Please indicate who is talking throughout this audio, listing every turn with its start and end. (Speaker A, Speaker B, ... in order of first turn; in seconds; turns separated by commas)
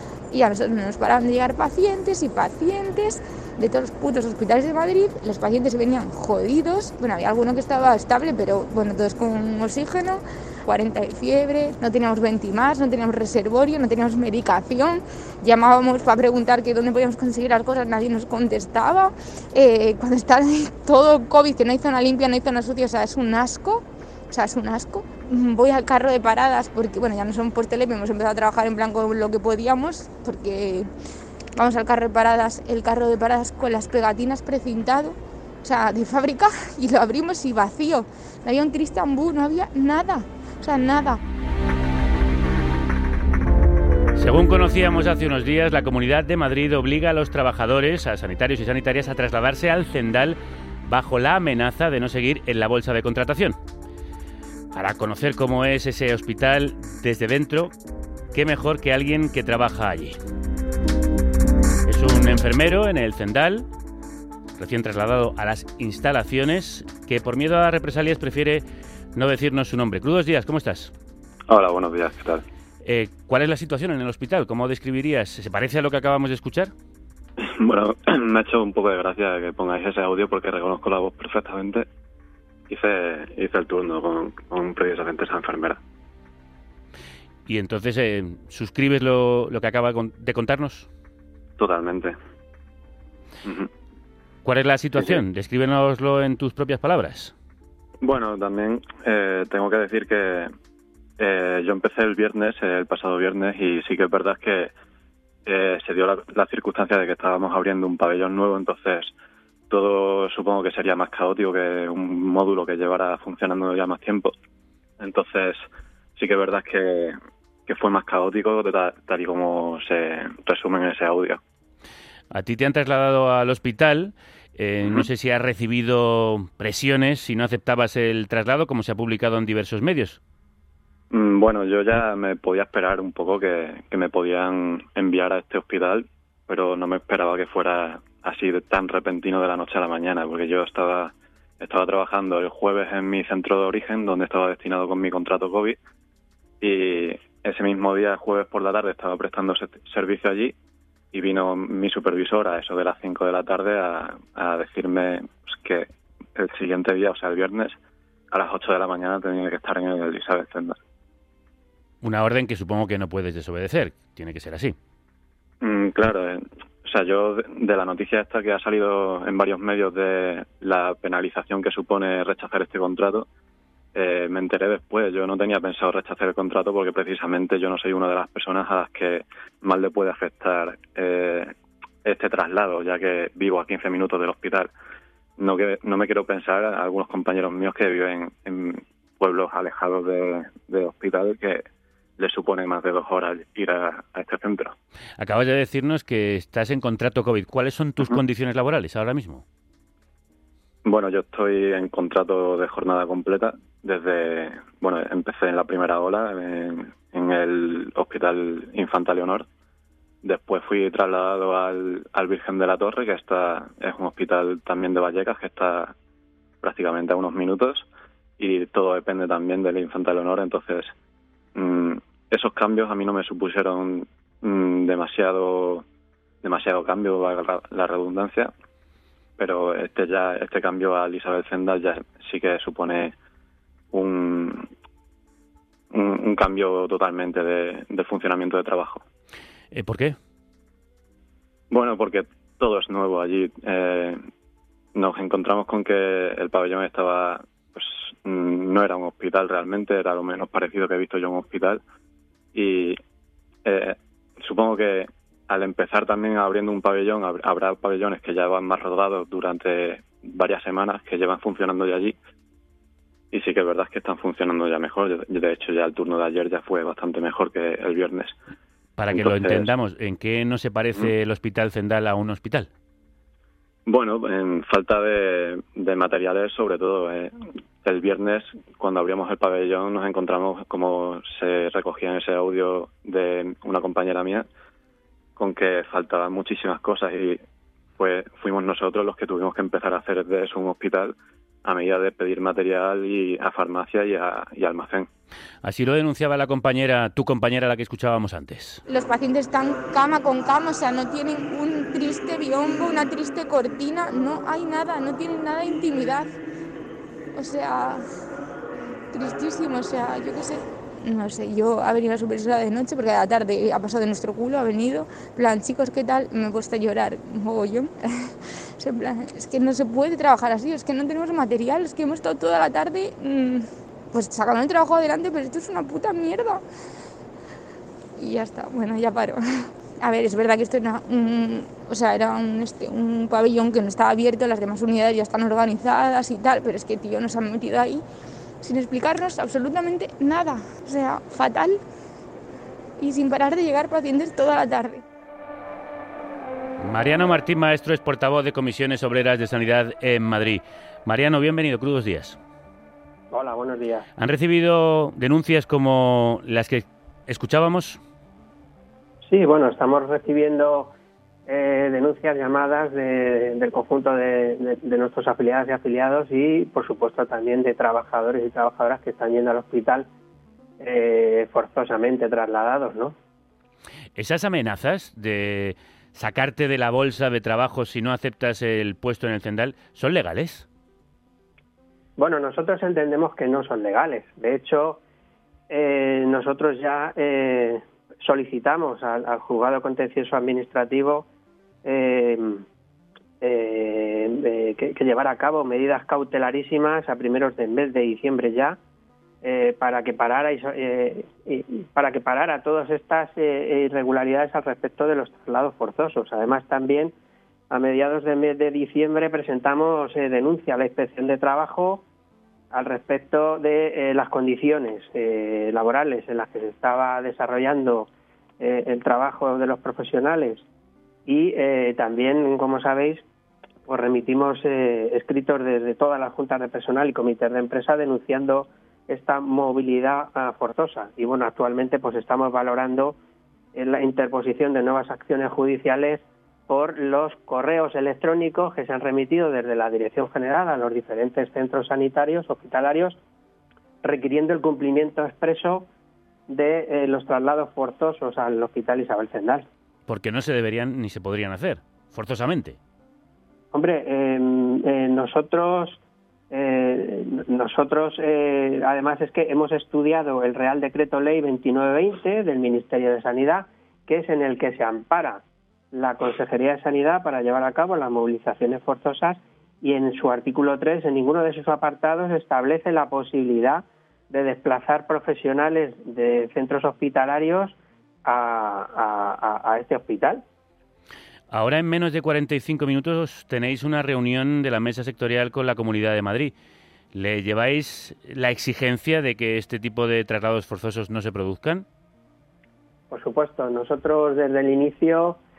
Speaker A: 0.3-30.9, Speaker A: 31.6-41.2, Speaker B: 44.2-53.6, Speaker B: 54.7-57.7, Speaker B: 58.3-60.2, Speaker B: 61.9-63.7, Speaker B: 64.6-68.6, Speaker B: 69.1-70.9, Speaker C: 71.5-72.4, Speaker B: 72.8-76.7, Speaker C: 77.4-81.9, Speaker C: 82.7-85.8, Speaker B: 87.5-90.9, Speaker C: 91.6-92.2, Speaker C: 93.4-93.7, Speaker B: 94.5-97.3, Speaker C: 98.0-100.5, Speaker C: 101.2-104.7, Speaker C: 105.5-109.1, Speaker C: 109.7-114.3, Speaker C: 115.0-121.4, Speaker B: 122.3-130.2, Speaker C: 131.1-145.8, Speaker C: 146.6-150.6, Speaker C: 151.1-157.8, Speaker C: 158.3-160.8, Speaker B: 162.0-164.8, Speaker C: 165.6-173.3, Speaker C: 173.9-181.5, Speaker C: 182.1-184.7, Speaker C: 185.4-191.6, Speaker C: 192.2-194.8, Speaker B: 195.2-199.4, Speaker C: 200.8-209.5, Speaker C: 210.2-215.9, Speaker C: 216.6-217.9, Speaker C: 218.4-220.9, Speaker C: 221.6-225.8, Speaker C: 226.4-228.5, Speaker C: 229.4-233.1, Speaker C: 233.9-234.7, Speaker C: 235.9-239.0, Speaker B: 239.7-240.2, Speaker C: 241.7-244.2, Speaker C: 244.9-251.8, Speaker C: 252.5-253.0, Speaker C: 253.6-262.2, Speaker C: 263.3-268.4, Speaker B: 269.0-272.7, Speaker C: 269.1-269.7, Speaker C: 273.9-284.5, Speaker C: 285.4-287.4, Speaker C: 288.0-295.1, Speaker B: 295.6-298.8, Speaker A: 298.9-306.3, Speaker A: 307.4-308.0, Speaker A: 309.1-326.6, Speaker A: 328.2-338.0, Speaker A: 338.6-341.8, Speaker A: 343.0-345.0, Speaker B: 346.8-352.4, Speaker D: 353.3-354.1, Speaker B: 354.2-358.0, Speaker D: 359.3-360.9, Speaker D: 361.5-370.1, Speaker D: 370.8-373.1, Speaker B: 374.2-380.7, Speaker D: 382.2-385.0, Speaker D: 385.7-391.3, Speaker D: 391.8-392.6, Speaker D: 393.4-398.8, Speaker D: 399.4-407.1, Speaker D: 407.7-412.0, Speaker D: 412.7-418.1, Speaker D: 418.6-420.6, Speaker D: 421.3-423.2, Speaker D: 423.9-433.2, Speaker D: 433.8-443.2, Speaker D: 444.0-445.9, Speaker D: 446.5-449.7, Speaker B: 450.1-452.8, Speaker D: 453.7-456.0, Speaker D: 456.5-465.4, Speaker D: 465.9-480.4, Speaker B: 481.5-486.5, Speaker B: 487.1-491.9, Speaker D: 493.1-495.4